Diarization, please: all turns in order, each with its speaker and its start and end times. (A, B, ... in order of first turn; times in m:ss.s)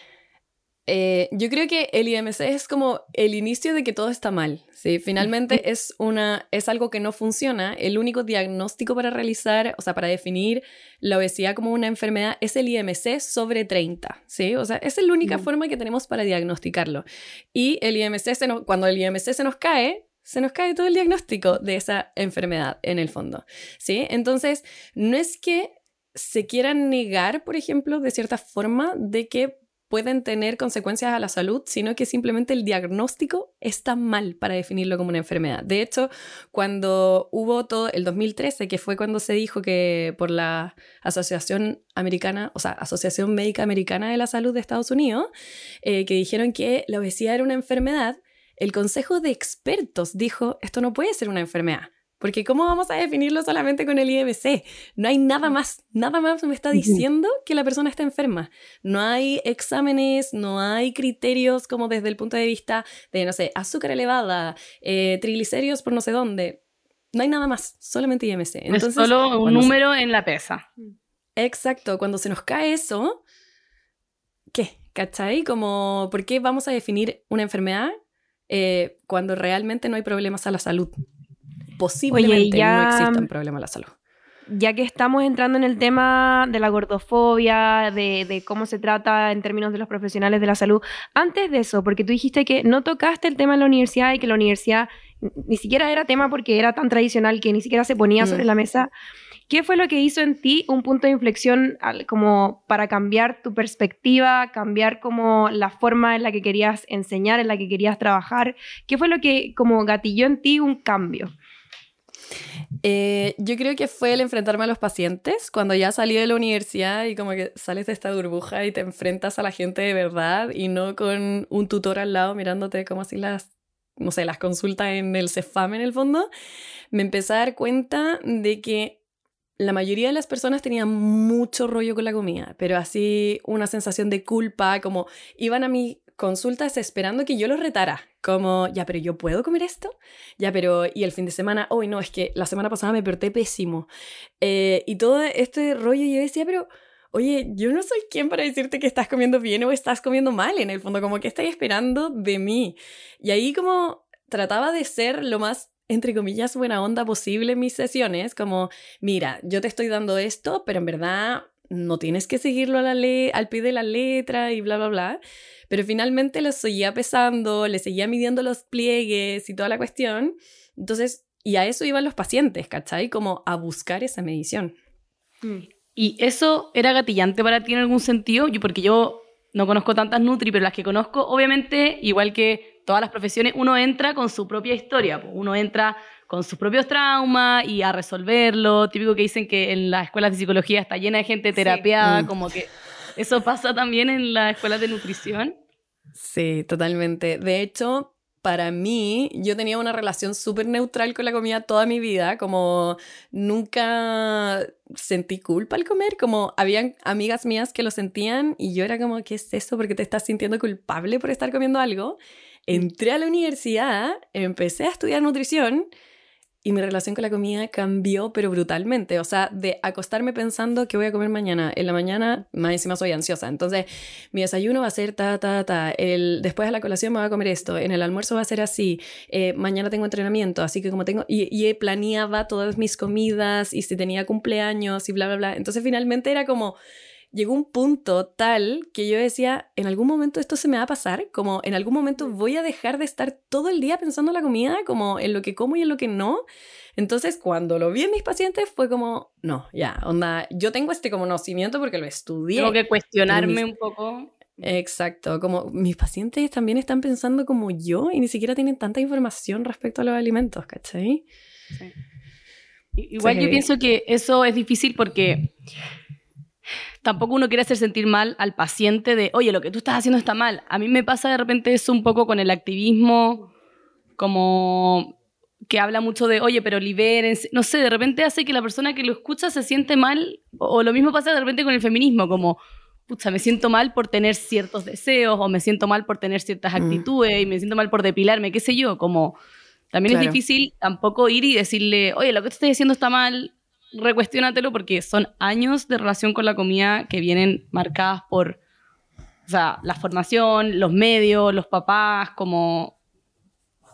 0:00.9-0:45.3 A
0:45.8-1:06.6 A
0:56.8-0:57.0 B
1:07.1-1:09.8 A
1:08.7-1:10.6 B
1:11.4-1:13.2 A
1:14.5-1:17.9 A
1:18.5-1:20.9 A
1:21.8-1:23.9 A
1:22.1-1:23.3 C
1:24.5-1:38.9 C
1:39.5-1:51.3 C
1:52.8-2:06.3 A
2:06.9-2:09.0 A
2:09.6-2:23.9 A
2:24.4-2:45.2 A
2:45.7-2:54.8 A
2:56.0-3:15.6 B
3:11.6-3:11.8 C
3:12.0-3:12.3 A
3:16.2-3:35.9 A
3:36.6-3:56.8 A
3:57.3-4:06.4 A
4:07.0-4:13.6 A
4:12.6-4:14.6 B
4:14.6-4:21.2 A
4:23.0-4:25.5 B
4:23.2-4:23.6 A
4:27.0-4:33.5 B
4:34.2-4:35.2 B
4:35.7-4:49.4 B
4:46.8-4:47.0 A
4:49.9-4:58.6 B
4:50.1-4:50.4 A
4:59.5-5:02.9 B